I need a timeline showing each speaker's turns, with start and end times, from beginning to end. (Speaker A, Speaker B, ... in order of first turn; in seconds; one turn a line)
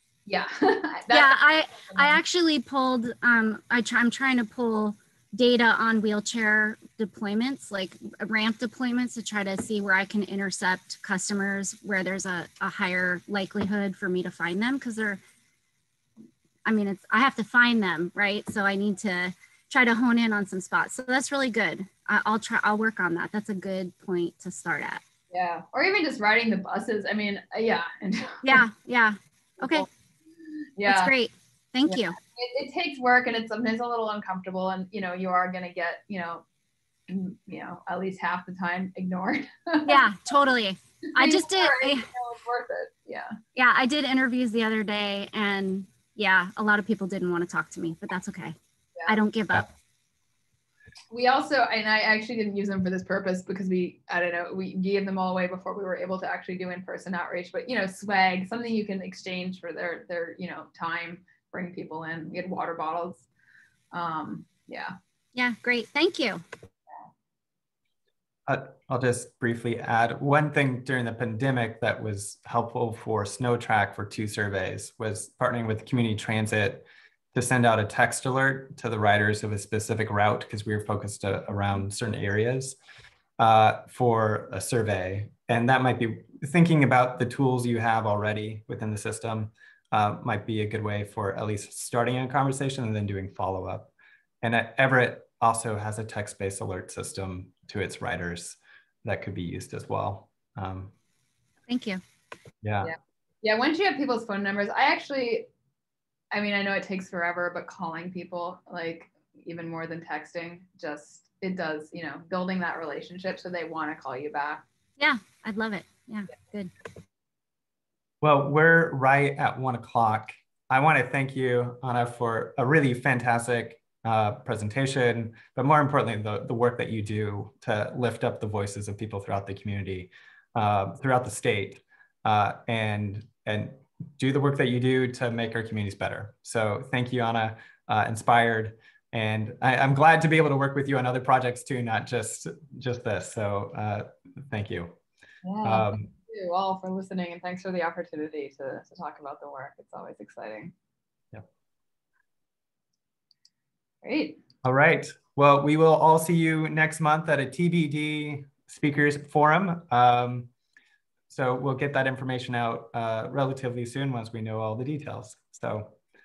Speaker A: 0.2-2.2
Speaker B: 1.1-15.2
Speaker B: 16.6-25.0
Speaker A: 25.3-28.6
Speaker B: 28.4-29.9
Speaker A: 29.6-29.9
Speaker A: 30.8-31.1
Speaker B: 30.8-32.2
Speaker A: 31.9-36.4
Speaker A: 37.1-40.0
Speaker B: 39.8-42.1
Speaker A: 41.1-43.4
Speaker B: 43.5-49.7
Speaker A: 51.1-63.3
Speaker A: 63.9-64.9
Speaker B: 65.3-66.4
Speaker C: 68.5-82.8
Speaker C: 83.4-100.9
Speaker B: 101.7-102.0
Speaker C: 102.6-102.9
Speaker A: 102.8-105.5
Speaker A: 106.3-114.6
Speaker B: 115.0-116.7
Speaker C: 118.2-144.9
Speaker A: 145.4-150.7
Speaker C: 145.6-146.1
Speaker A: 154.0-154.4
Speaker C: 154.6-160.5
Speaker C: 161.3-165.9